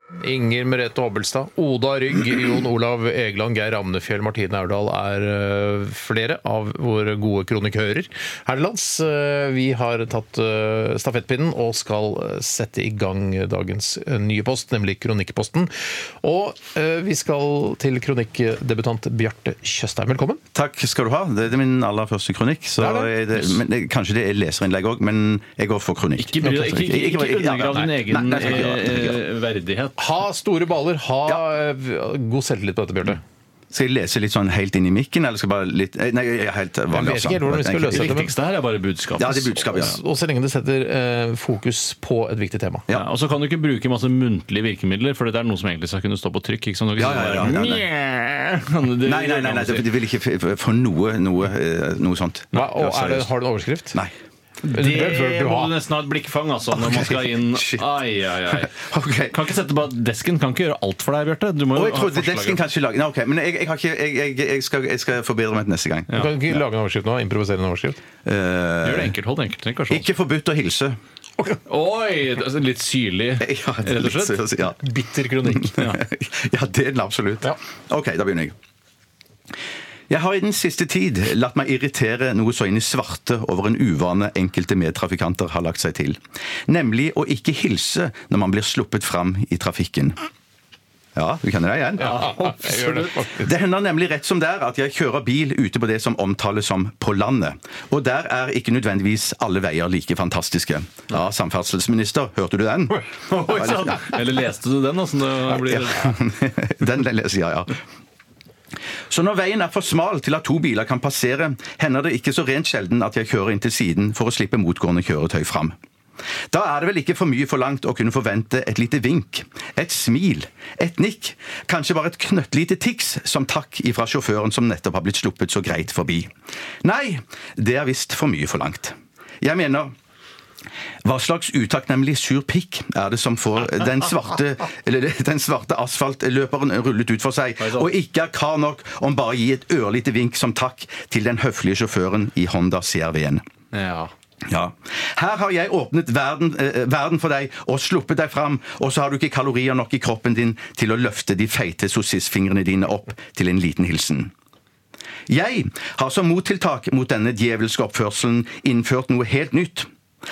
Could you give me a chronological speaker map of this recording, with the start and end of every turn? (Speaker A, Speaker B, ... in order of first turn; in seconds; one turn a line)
Speaker A: 0.2-20.4
Speaker B: 20.5-29.2
Speaker A: 22.8-23.1
Speaker C: 26.2-30.0
Speaker A: 26.4-26.7
Speaker A: 30.0-33.2
Speaker B: 33.7-38.2
Speaker A: 36.9-38.3
Speaker C: 37.9-39.9
Speaker B: 39.2-40.0
Speaker A: 39.4-42.9
Speaker C: 42.9-49.9
Speaker B: 47.0-47.9
Speaker B: 49.0-53.3
Speaker A: 52.5-54.0
Speaker C: 54.6-58.8
Speaker A: 54.7-55.7
Speaker B: 56.7-57.9
Speaker B: 58.5-59.4
Speaker C: 59.3-62.6
Speaker B: 61.7-66.6
Speaker A: 66.1-68.0
Speaker B: 68.2-69.1
Speaker C: 68.8-70.0
Speaker B: 69.9-71.0
Speaker C: 71.7-74.4
Speaker B: 73.4-74.8
Speaker A: 74.8-75.7
Speaker B: 75.4-78.5
Speaker C: 75.8-76.0
Speaker B: 80.1-90.2
Speaker B: 91.2-104.2
Speaker C: 92.0-93.1
Speaker A: 92.0-93.5
Speaker C: 103.2-106.1
Speaker B: 105.4-107.8
Speaker B: 109.1-115.7
Speaker B: 116.5-126.3
Speaker B: 126.8-129.9
Speaker B: 131.0-143.4
Speaker C: 137.6-137.9
Speaker C: 143.7-144.1
Speaker B: 144.5-154.3
Speaker B: 155.3-159.9